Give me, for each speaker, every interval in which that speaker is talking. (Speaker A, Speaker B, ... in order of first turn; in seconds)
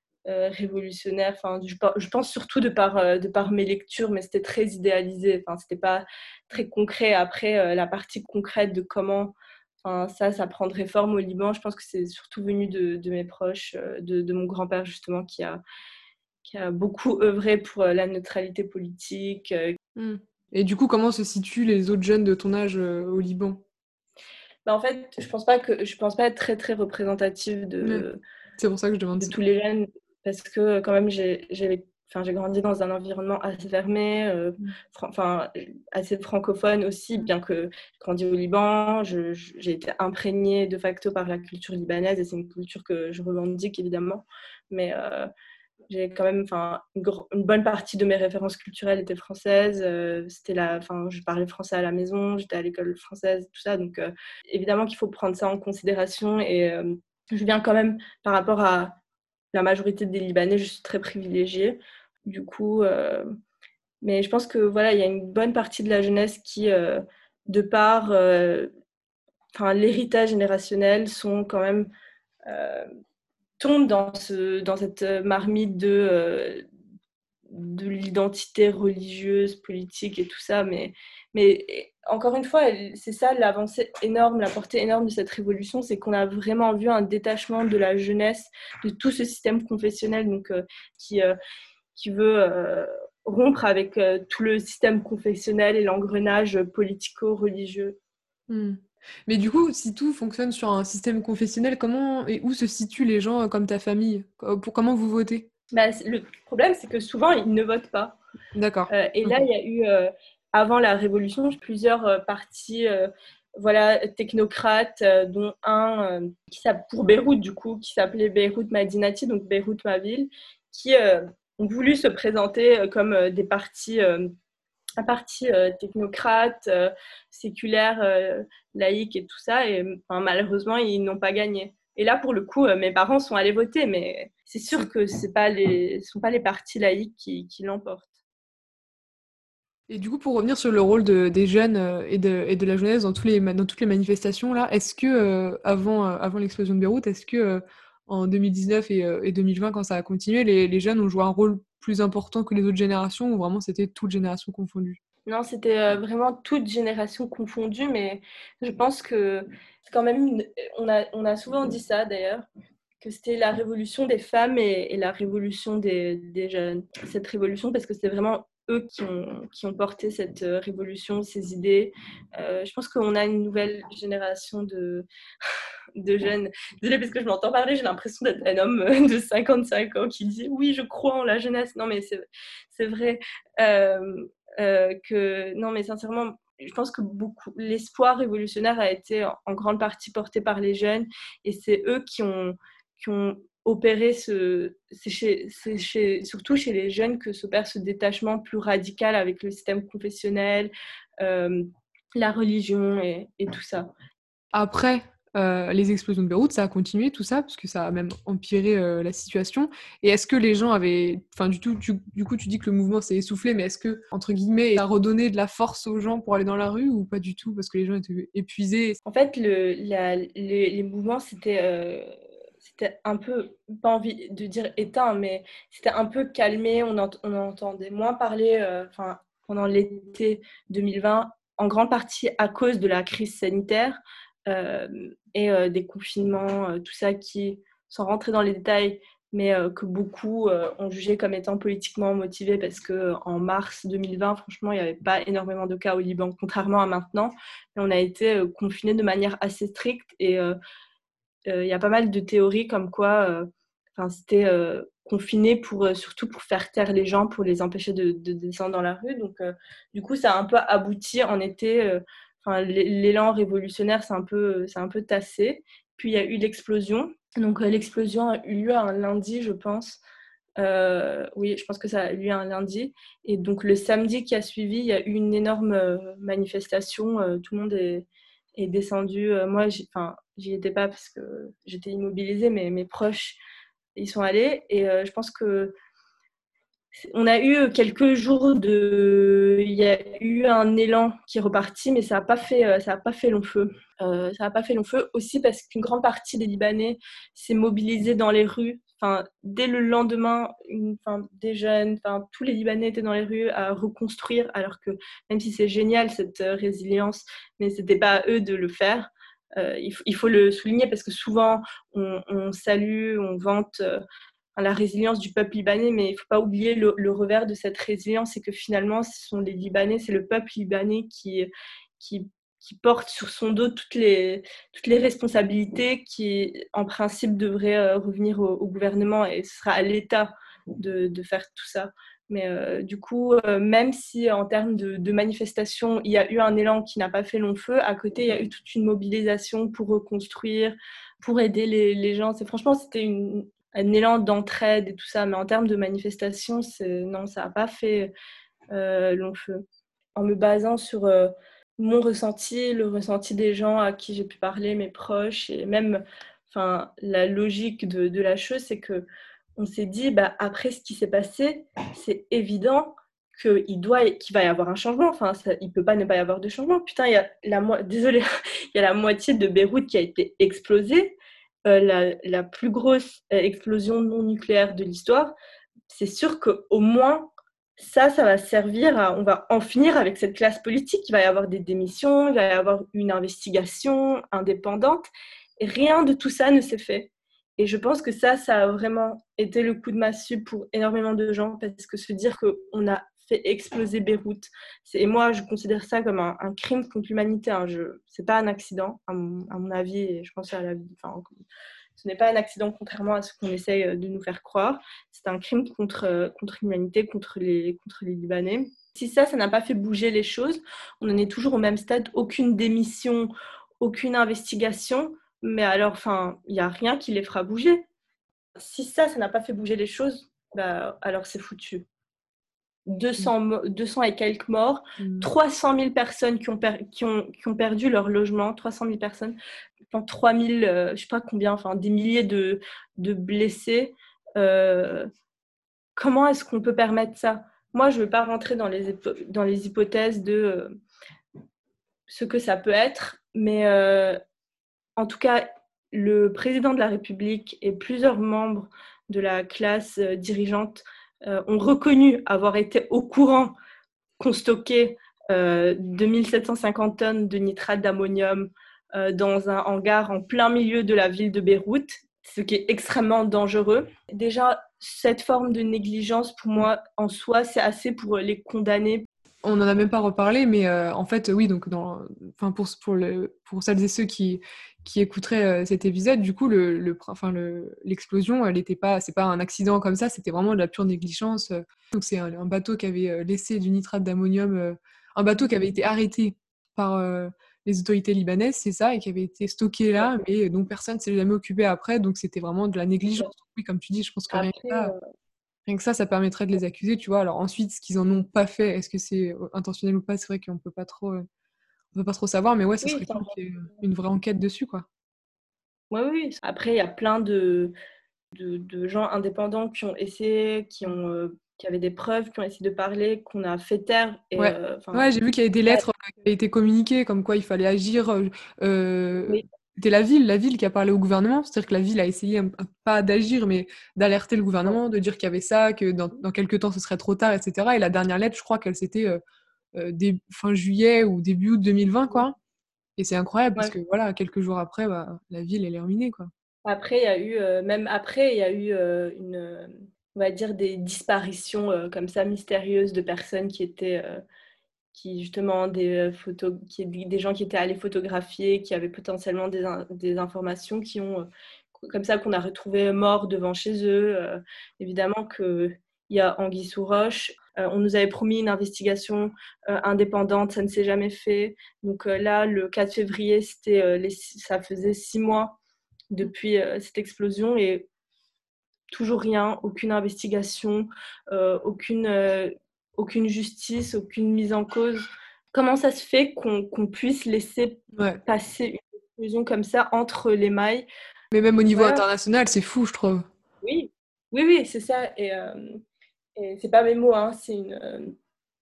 Speaker A: 0.2-15.6, 16.4-19.8, 24.6-28.2, 29.1-45.3, 45.9-59.0, 59.5-63.2, 64.0-68.7, 69.5-71.9, 72.5-72.8, 73.6-76.6, 77.5-91.3, 91.9-98.0, 105.7-108.2, 108.9-124.3, 125.0-138.1, 155.2-162.4, 163.0-175.1, 176.0-203.9, 219.1-222.1, 222.6-250.6, 251.5-270.0, 270.6-283.4, 283.9-285.7, 286.9-314.0, 314.6-348.1, 348.7-349.6, 350.1-359.0, 359.6-375.3, 375.9-401.3, 402.0-417.9, 418.6-421.8, 422.9-429.4, 429.9-435.1, 435.9-440.7, 442.1-444.2, 445.0-453.6, 454.2-469.1, 489.9-490.2, 494.3-495.0, 502.8-503.3, 505.9-507.7, 508.3-515.1, 536.6-544.2, 544.9-565.6, 566.1-567.9, 568.9-580.9, 581.7-582.0, 583.6-585.8, 586.4-588.1
Speaker B: 19.9-23.6, 28.6-29.4, 98.5-105.5, 108.5-109.4, 139.9-155.0, 204.5-219.0, 425.0-425.3, 469.4-494.9, 495.6-501.2, 501.9-504.9, 514.4-529.2, 529.7-532.3, 533.0-536.3, 577.9-578.2, 581.3-583.2